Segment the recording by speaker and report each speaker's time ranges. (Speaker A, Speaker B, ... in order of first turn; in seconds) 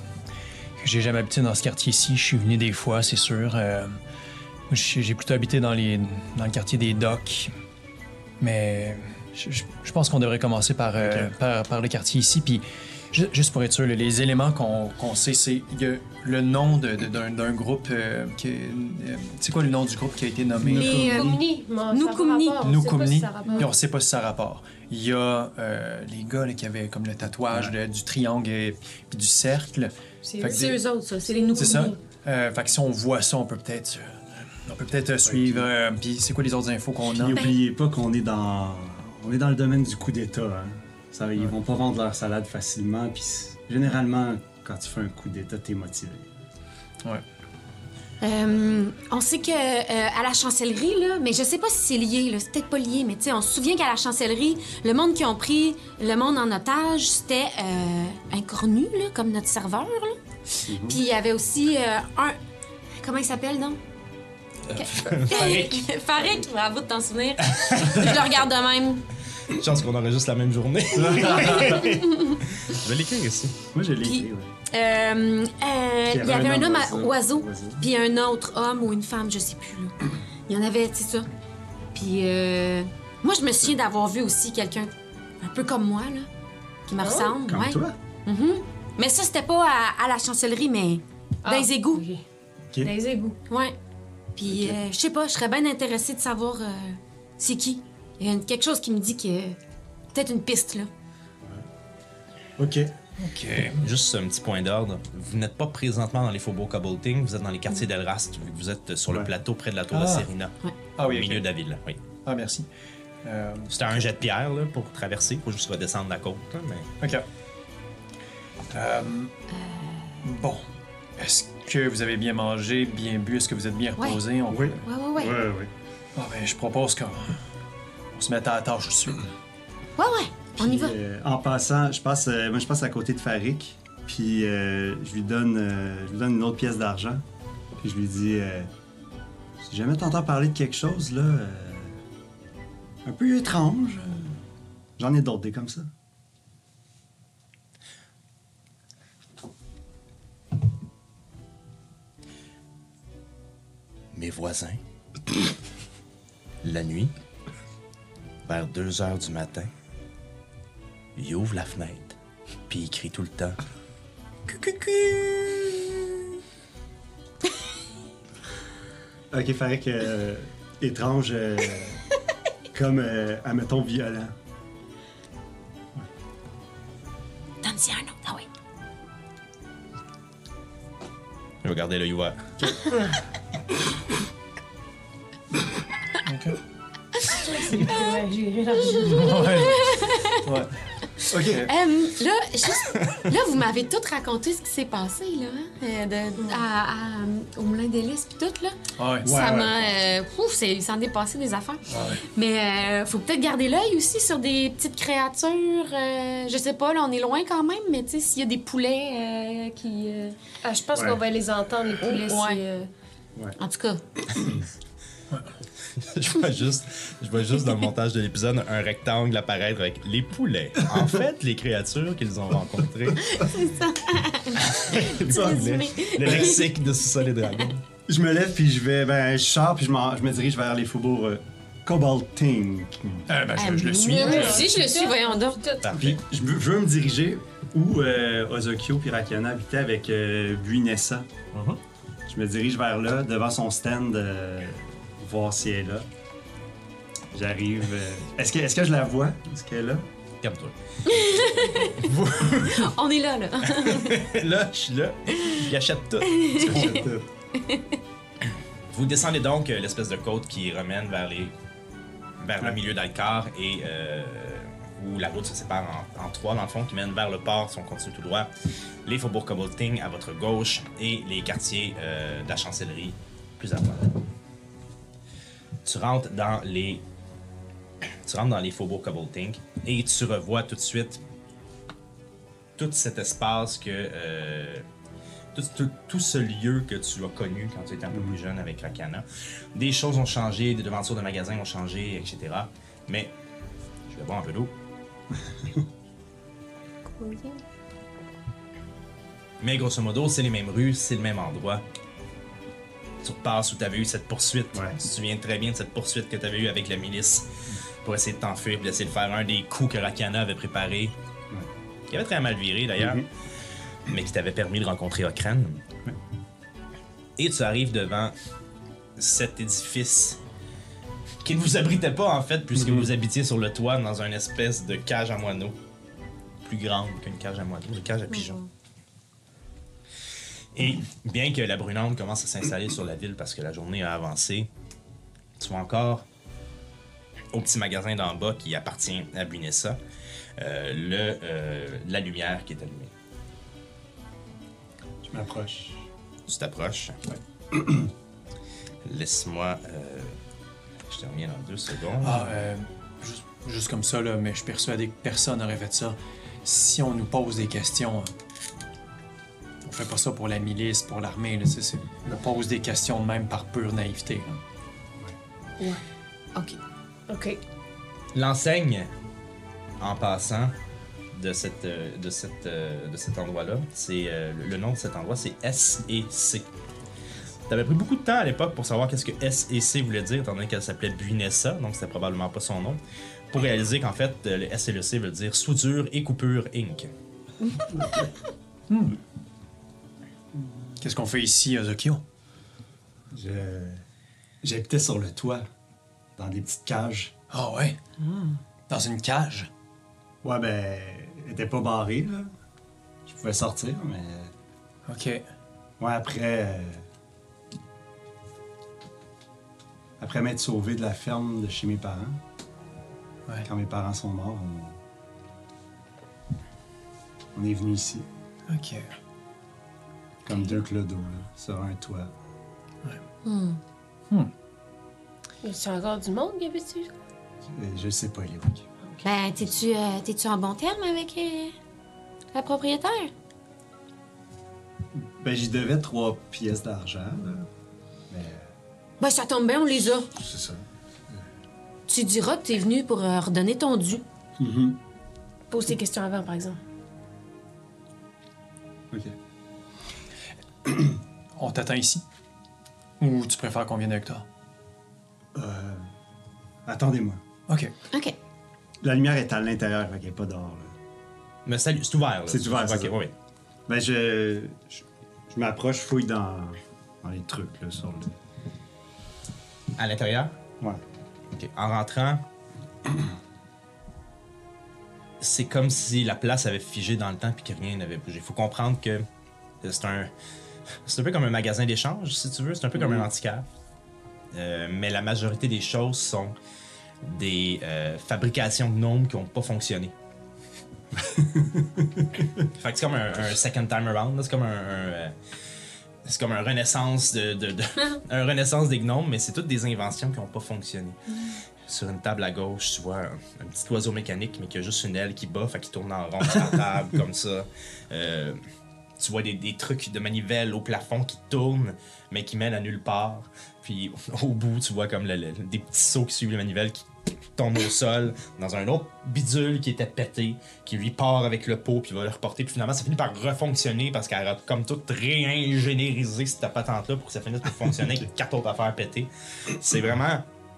Speaker A: 0.8-4.0, 4.7-7.5, 8.4-21.1, 22.6-30.8, 31.6-37.5, 103.2-103.9, 109.9-110.3, 111.0-111.5, 112.2-112.7, 113.2-113.8, 118.7-119.3, 120.2-124.8, 126.2-127.4, 128.1-129.3, 186.2-186.6, 189.0-191.7, 199.0-199.3, 201.9-202.2, 233.3-234.8, 352.2-358.3, 359.9-364.6, 388.9-389.2, 391.0-392.2, 397.5-398.1, 398.9-399.7, 405.1-405.4, 418.7-419.1, 451.6-452.2, 453.2-454.5, 457.7-457.9
Speaker B: 11.0-11.3, 20.6-21.4, 35.2-35.7, 37.1-46.3, 60.7-61.0, 70.9-71.9, 73.7-74.6, 76.1-77.8, 87.4-88.0, 94.5-94.8, 102.6-102.9, 124.5-125.7, 130.6-137.2, 137.8-138.7, 139.6-142.0, 143.1-144.4, 145.0-145.9, 169.3-172.0, 172.7-174.3, 191.3-191.6, 199.2-199.9, 210.9-211.2, 225.3-225.6, 226.2-226.6, 228.1-233.3, 235.9-241.3, 242.3-246.1, 247.3-250.1, 256.6-257.3, 295.4-295.9, 304.7-305.0, 313.0-313.3, 322.8-323.1, 345.2-346.1, 347.7-348.1, 388.0-388.2, 393.3-394.0, 394.6-395.6, 396.4-397.3, 400.4-402.5, 403.3-404.5, 406.0-407.0, 410.2-412.4, 413.6-415.0, 417.5-418.3, 420.5-422.3, 427.7-428.9, 435.1-437.7, 438.3-438.7, 440.4-441.4, 444.6-445.0, 449.1-449.4, 450.9-451.1, 455.5-456.1, 456.9-457.4, 459.0-460.9, 462.5-463.2, 463.9-468.4, 483.0-483.3, 491.1-492.4
Speaker C: 20.7-23.7, 30.2-31.9, 87.0-87.3, 91.4-92.2, 92.8-93.4, 187.3-189.5, 210.6-212.9, 234.2-235.8, 297.2-297.6, 367.3-367.6, 425.6-427.1, 445.7-446.8
Speaker D: 20.8-22.7, 30.4-31.9, 37.3-37.6, 48.2-62.4, 63.0-63.8, 64.7-69.0, 71.6-72.3, 74.0-81.3, 81.9-86.3, 86.9-92.0, 93.5-93.8, 94.4-99.6, 100.1-100.9, 119.5-120.2, 124.8-125.4, 130.0-130.9, 177.6-178.5, 189.0-190.5, 191.6-210.4, 212.0-212.6, 213.6-214.0, 223.2-226.7, 233.6-235.6, 251.1-252.1, 252.6-254.3, 256.3-256.9, 257.6-258.0, 328.4-328.6, 423.4-423.8, 429.2-431.7, 432.5-433.3, 439.2-440.3, 442.1-444.2
Speaker E: 64.7-65.9, 67.4-68.4, 69.5-73.6, 103.8-112.0, 113.7-116.9, 154.1-154.8, 156.6-157.1, 158.4-159.7, 161.2-162.2, 162.7-163.6, 164.5-166.3, 181.6-182.5, 216.0-223.5, 224.6-227.8, 235.8-236.2, 250.4-252.5, 253.7-257.0, 258.9-261.6, 262.4-268.5, 269.1-274.3, 275.8-277.0, 278.2-281.2, 282.8-284.9, 285.5-293.3, 294.1-294.7, 299.6-301.8, 303.2-307.5, 308.0-311.1, 312.1-313.3, 314.1-315.8, 317.4-318.3, 319.2-320.4, 321.4-325.8, 326.6-328.6, 330.8-334.7, 335.6-336.3, 337.5-340.0, 340.6-343.1, 346.5-347.2, 349.1-350.4, 351.1-352.5, 368.3-369.1, 370.0-370.7, 371.3-376.7, 377.7-387.1, 461.7-463.3, 470.0-470.5, 471.5-472.4, 475.4-479.3, 479.8-480.3, 481.1-483.6, 484.5-486.6, 487.2-490.1, 492.8-495.3, 496.2-501.2, 501.9-508.6, 509.2-530.5